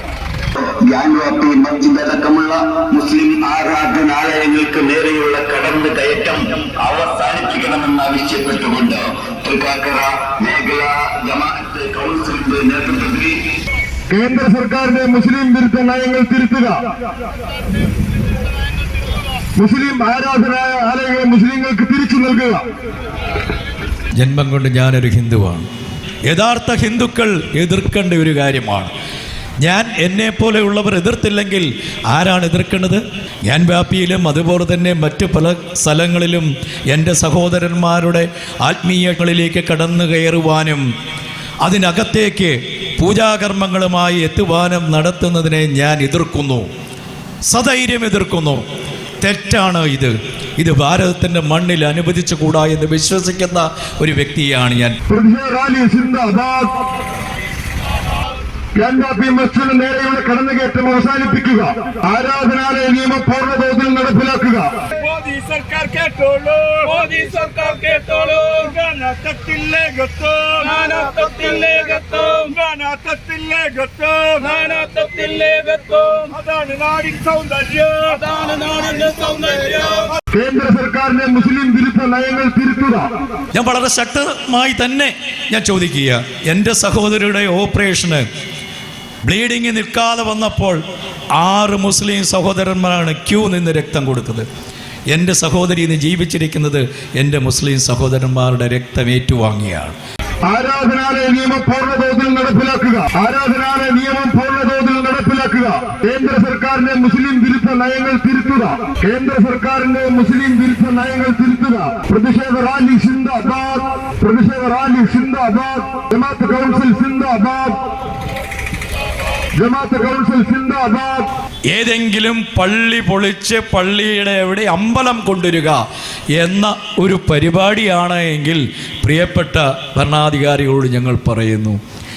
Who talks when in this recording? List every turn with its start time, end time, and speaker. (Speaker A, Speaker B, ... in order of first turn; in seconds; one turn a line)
Speaker A: 0.7-13.4
Speaker B: 14.1-16.8
Speaker B: 19.6-22.6
Speaker C: 24.2-25.7
Speaker C: 26.3-28.9
Speaker C: 29.6-40.9
Speaker C: 41.6-46.7
Speaker C: 47.5-48.6
Speaker C: 49.2-55.0
Speaker B: 55.1-56.8
Speaker B: 58.8-64.8
Speaker D: 64.9-80.1
Speaker B: 80.3-83.1
Speaker C: 83.5-88.3
Speaker C: 89.2-90.8
Speaker C: 91.4-94.5
Speaker C: 95.1-100.0
Speaker B: 100.5-117.9
Speaker B: 119.6-121.3
Speaker C: 121.7-125.8
Speaker C: 126.3-131.8